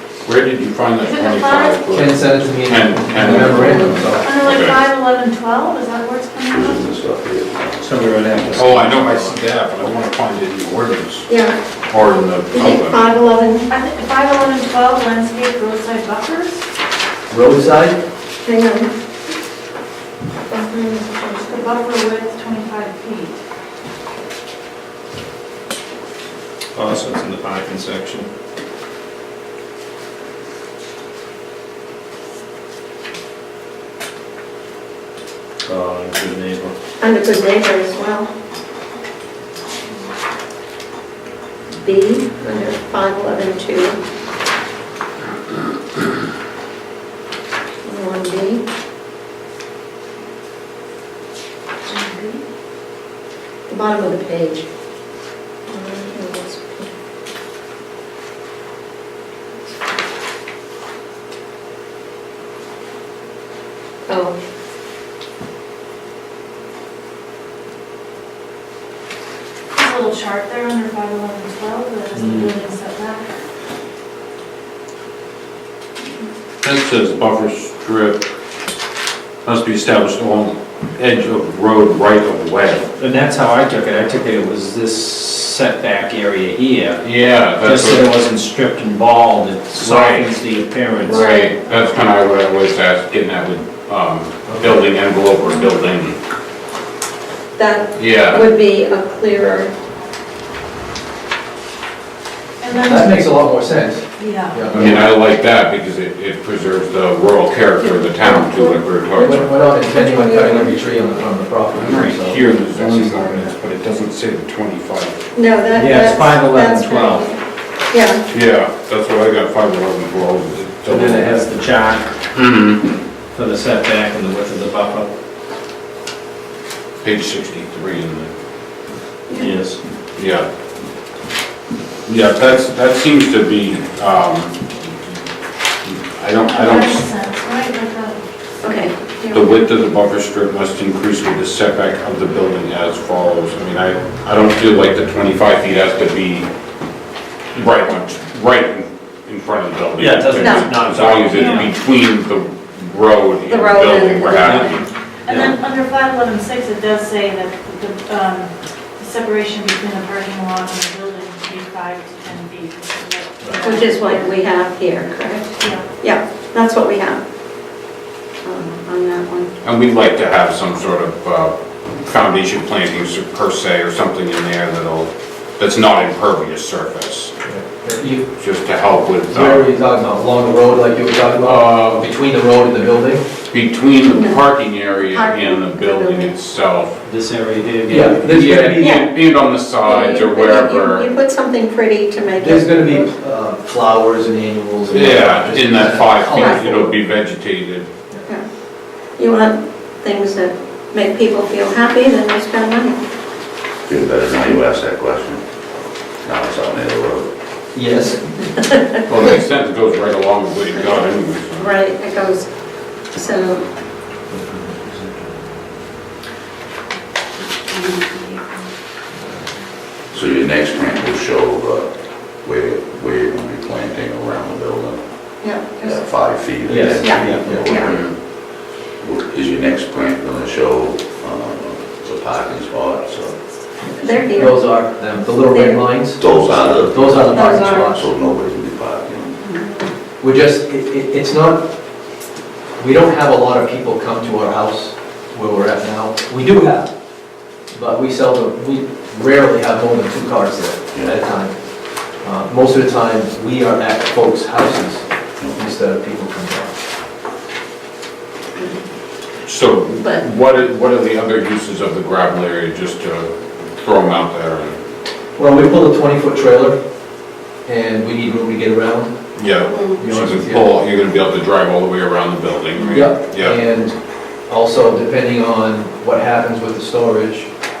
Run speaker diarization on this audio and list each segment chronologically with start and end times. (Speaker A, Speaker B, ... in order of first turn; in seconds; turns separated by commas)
Speaker A: 0.2-4.8, Speaker B: 1.0-1.8, Speaker C: 1.9-4.3, Speaker B: 4.2-6.9, Speaker D: 6.5-8.6, Speaker E: 7.8-9.0, Speaker A: 8.4-11.3, Speaker F: 11.3-11.6, Speaker A: 11.9-13.0, Speaker F: 12.5-13.7, Speaker B: 13.7-16.6, Speaker C: 17.3-18.0, Speaker F: 18.4-18.9, Speaker F: 20.5-21.6, Speaker B: 21.4-23.4, Speaker E: 26.7-28.3, Speaker E: 35.6-36.7, Speaker F: 37.0-38.3, Speaker F: 41.8-44.0, Speaker F: 47.8-48.6, Speaker B: 51.9-52.4, Speaker F: 53.7-54.6, Speaker F: 55.7-56.9, Speaker F: 64.1-64.3, Speaker B: 69.7-73.3, Speaker A: 76.6-78.2, Speaker A: 79.4-82.9, Speaker E: 83.0-87.0, Speaker A: 87.0-88.1, Speaker E: 87.6-91.3, Speaker A: 89.7-90.4, Speaker A: 91.0-96.2, Speaker F: 91.1-91.6, Speaker C: 94.5-94.8, Speaker F: 97.5-99.7, Speaker A: 97.9-98.4, Speaker B: 102.6-103.2, Speaker C: 102.7-105.1, Speaker B: 104.2-104.7, Speaker A: 104.7-109.5, Speaker F: 107.8-110.9, Speaker C: 109.2-113.4, Speaker A: 111.7-115.2, Speaker F: 115.3-117.4, Speaker E: 115.7-117.2, Speaker F: 117.9-118.2, Speaker A: 118.3-121.4, Speaker E: 120.8-122.1, Speaker A: 122.3-122.8, Speaker E: 123.3-125.1, Speaker A: 127.0-128.3, Speaker F: 129.3-129.6, Speaker E: 129.3-129.8, Speaker A: 130.2-130.5, Speaker A: 132.1-134.8, Speaker A: 135.8-137.1, Speaker B: 136.4-138.2, Speaker F: 138.6-139.5, Speaker A: 139.3-146.5, Speaker A: 147.5-154.7, Speaker E: 150.0-151.6, Speaker F: 150.4-150.8, Speaker B: 151.3-151.7, Speaker F: 153.4-154.8, Speaker E: 154.4-154.8, Speaker B: 154.6-164.3, Speaker F: 163.5-167.2, Speaker B: 165.6-165.9, Speaker F: 168.4-169.5, Speaker A: 169.6-177.3, Speaker C: 177.4-178.3, Speaker A: 178.4-179.6, Speaker C: 179.3-183.2, Speaker A: 181.4-182.1, Speaker A: 183.5-187.0, Speaker F: 184.1-184.4, Speaker F: 185.0-186.3, Speaker E: 187.0-188.3, Speaker C: 187.8-188.9, Speaker A: 187.9-191.1, Speaker F: 188.8-189.1, Speaker F: 189.8-193.1, Speaker C: 192.4-197.0, Speaker A: 194.9-197.9, Speaker F: 196.3-196.7, Speaker F: 199.2-202.9, Speaker D: 203.8-205.4, Speaker D: 206.2-207.3, Speaker C: 207.7-208.5, Speaker A: 209.1-211.7, Speaker F: 210.7-211.0, Speaker F: 211.6-212.5, Speaker F: 213.1-213.6, Speaker C: 214.3-215.1, Speaker F: 217.4-218.6, Speaker D: 220.1-225.0, Speaker F: 225.4-226.0, Speaker D: 225.8-228.1, Speaker C: 226.7-227.7, Speaker F: 227.0-227.9, Speaker D: 229.0-233.4, Speaker F: 233.9-234.6, Speaker C: 234.2-238.1, Speaker F: 235.4-235.8, Speaker D: 236.2-239.4, Speaker F: 237.3-238.0, Speaker F: 239.4-239.8, Speaker C: 240.2-241.7, Speaker C: 242.8-246.9, Speaker C: 247.7-251.5, Speaker C: 252.2-256.7, Speaker F: 258.6-258.8, Speaker A: 259.4-264.8, Speaker C: 265.4-266.8, Speaker C: 267.6-269.1, Speaker A: 269.4-273.6, Speaker F: 269.6-270.0, Speaker C: 269.9-270.7, Speaker C: 272.9-273.9, Speaker C: 274.5-277.5